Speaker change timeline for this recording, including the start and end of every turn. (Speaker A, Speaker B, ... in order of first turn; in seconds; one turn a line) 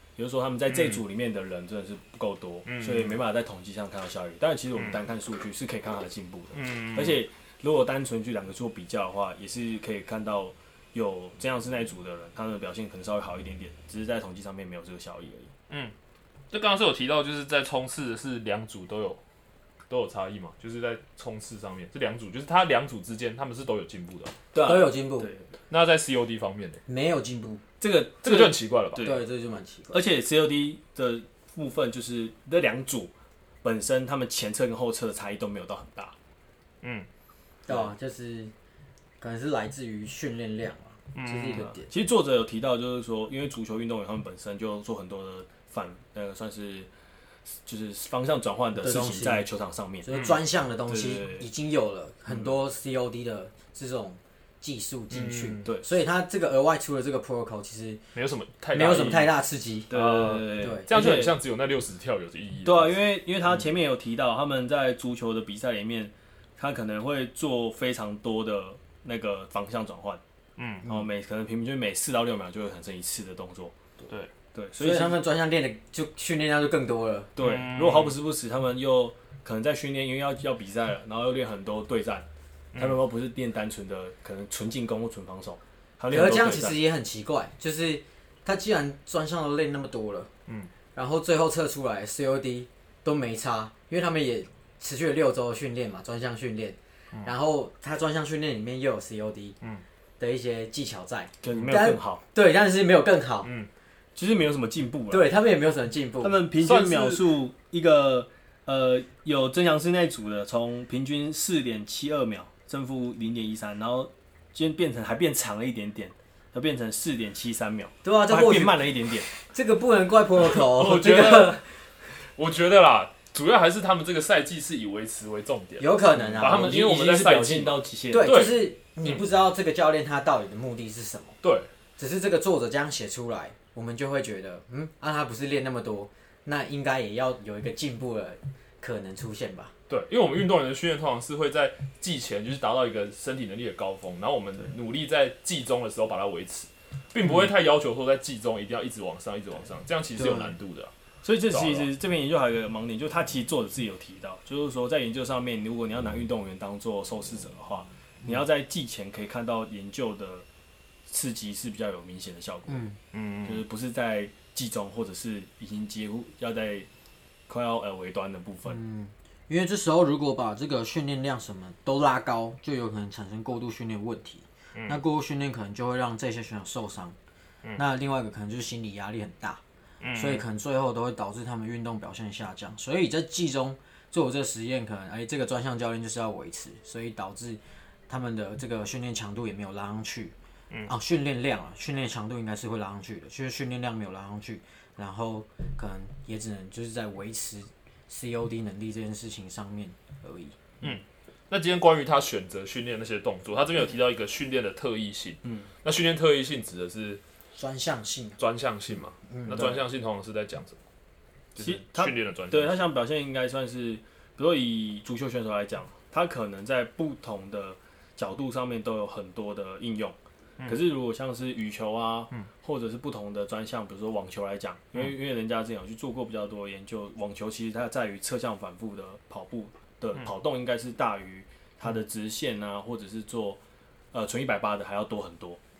Speaker A: 0.2-15.5
Speaker B: 0.7-1.0
Speaker B: 2.6-3.2
Speaker B: 6.5-7.2
Speaker B: 16.5-19.2
Speaker B: 19.9-24.4
Speaker A: 24.5-25.5
Speaker C: 24.6-25.3
Speaker B: 25.7-26.8
Speaker C: 26.9-27.6
Speaker A: 27.8-29.2
Speaker B: 28.2-29.1
Speaker C: 29.0-30.0
Speaker A: 29.9-33.1
Speaker A: 33.6-36.1
Speaker B: 36.8-37.1
Speaker C: 37.6-38.5
Speaker C: 39.2-41.9
Speaker B: 41.1-41.7
Speaker A: 41.6-46.9
Speaker A: 47.5-50.0
Speaker C: 48.8-49.5
Speaker C: 50.0-58.0
Speaker A: 50.9-51.5
Speaker A: 52.3-52.5
Speaker B: 55.1-55.8
Speaker B: 58.1-59.3
Speaker C: 58.7-59.9
Speaker A: 59.9-61.4
Speaker B: 59.9-63.0
Speaker C: 60.5-60.9
Speaker A: 62.6-70.2
Speaker B: 70.6-70.9
Speaker A: 70.8-73.7
Speaker A: 74.5-75.2
Speaker C: 74.8-77.3
Speaker A: 77.3-86.8
Speaker B: 77.4-78.2
Speaker B: 82.7-83.0
Speaker C: 86.1-90.3
Speaker C: 90.9-99.6
Speaker C: 100.2-103.5
Speaker A: 101.4-102.2
Speaker B: 101.5-101.8
Speaker A: 104.2-105.3
Speaker C: 105.1-106.4
Speaker A: 106.2-119.3
Speaker B: 106.6-107.3
Speaker C: 118.0-118.8
Speaker C: 119.4-121.6
Speaker B: 120.7-121.5
Speaker A: 120.8-121.5
Speaker B: 122.2-129.2
Speaker C: 125.8-126.8
Speaker A: 126.1-128.5
Speaker C: 128.1-131.4
Speaker B: 131.4-131.7
Speaker C: 132.0-139.7
Speaker B: 139.9-150.9
Speaker C: 150.2-150.5
Speaker A: 151.2-160.4
Speaker B: 151.5-151.9
Speaker A: 161.1-162.8
Speaker C: 162.7-163.0
Speaker B: 163.1-163.6
Speaker A: 163.4-166.9
Speaker A: 167.5-168.8
Speaker C: 168.7-177.2
Speaker B: 174.7-175.0
Speaker C: 177.8-179.6
Speaker B: 180.0-180.4
Speaker C: 180.1-190.3
Speaker C: 190.8-200.5
Speaker B: 200.8-207.2
Speaker C: 207.6-208.4
Speaker B: 208.4-210.8
Speaker C: 209.3-209.8
Speaker B: 211.5-212.8
Speaker A: 211.6-233.6
Speaker A: 234.1-235.6